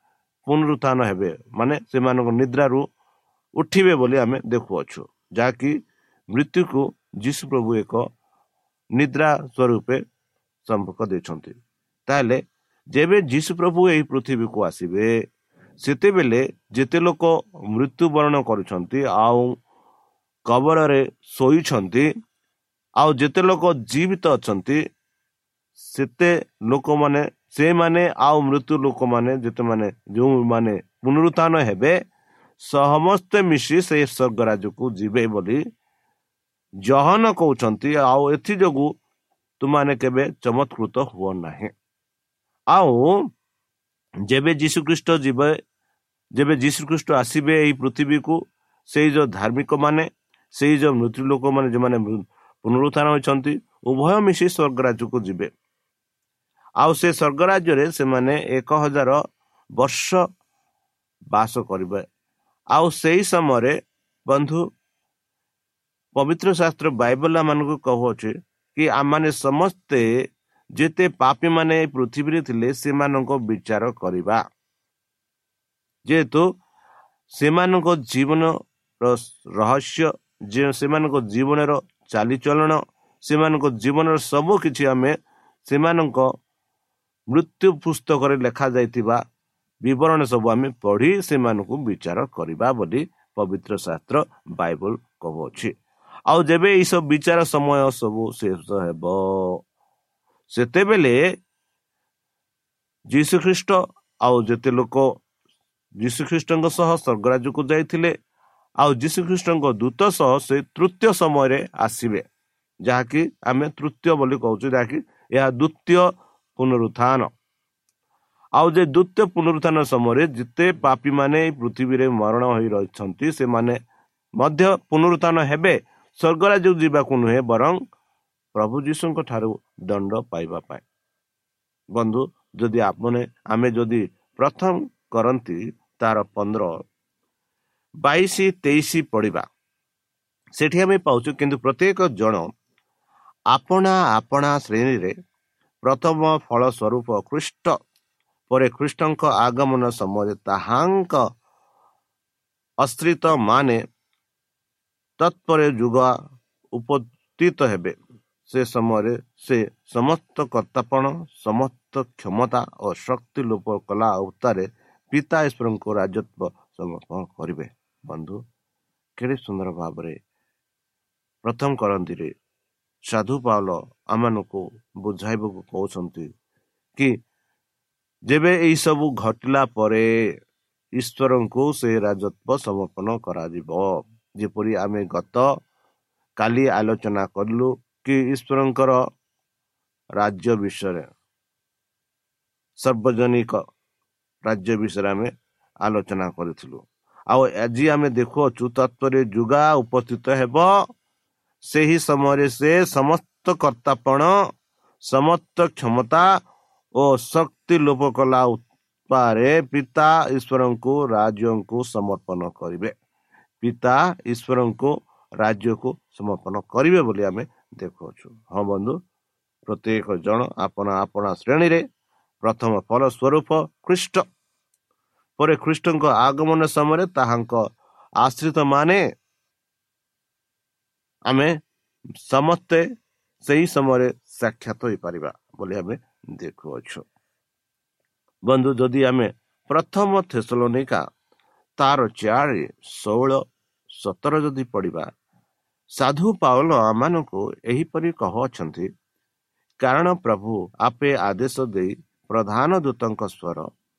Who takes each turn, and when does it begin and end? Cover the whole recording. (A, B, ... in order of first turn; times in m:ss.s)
0:00.4-0:02.9 A
0:03.6-0:05.8 A
0:06.3-0:08.1 A
0:09.0-0:10.0 A
0:10.6-0:11.6 A
0:12.1-0:12.4 A
0:12.9-0:15.2 A
0:15.8-0:19.6 A
0:20.5-0:22.1 A
0:23.0-0:24.8 A
0:25.8-0:32.0 A
0:32.6-0:35.6 A
0:36.8-0:39.0 A
0:39.6-0:41.7 A
0:42.7-0:43.3 A
0:44.3-0:45.5 A
0:46.3-0:48.4 A
0:48.9-0:55.5 A
0:56.8-0:59.2 A
0:59.8-1:00.2 A
1:01.3-1:02.0 A
1:02.7-1:03.7 A
1:04.3-1:04.6 A
1:06.1-1:10.1 A
1:10.7-1:14.4 A
1:16.0-1:16.6 A
1:17.3-1:26.3 A
1:27.3-1:29.2 A
1:29.8-1:35.7 A
1:36.3-1:39.6 A
1:40.5-1:41.3 A
1:43.1-1:45.2 A
1:46.0-1:48.1 A
1:48.8-1:52.2 A
1:52.8-1:57.3 A
1:58.6-2:03.8 A
2:04.4-2:07.8 A
2:08.5-2:10.8 A
2:11.9-2:16.8 A
2:18.0-2:19.4 A
2:20.6-2:22.5 A
2:23.5-2:25.1 A
2:25.8-2:27.8 A
2:28.5-2:31.2 A
2:32.8-2:33.8 A
2:35.2-2:36.1 A
2:36.7-2:38.0 A
2:38.5-2:48.4 A
2:49.2-2:50.2 A
2:51.4-2:52.3 A
2:53.1-2:56.3 A
2:58.3-3:00.0 A
3:01.0-3:05.5 A
3:06.4-3:09.0 A
3:10.2-3:11.1 A
3:12.8-3:13.6 A
3:14.4-3:15.3 A
3:15.8-3:20.9 A
3:21.6-3:24.4 A
3:25.0-3:26.4 A
3:27.0-3:32.9 A
3:33.6-3:39.0 A
3:39.6-3:41.8 A
3:42.4-3:44.2 A
3:45.4-3:47.6 A
3:48.2-3:49.0 A
3:51.3-3:51.6 A
3:52.2-3:52.8 A
3:53.4-3:57.0 A
3:58.5-4:01.0 A
4:01.8-4:05.1 A
4:06.0-4:08.9 A
4:09.8-4:13.7 A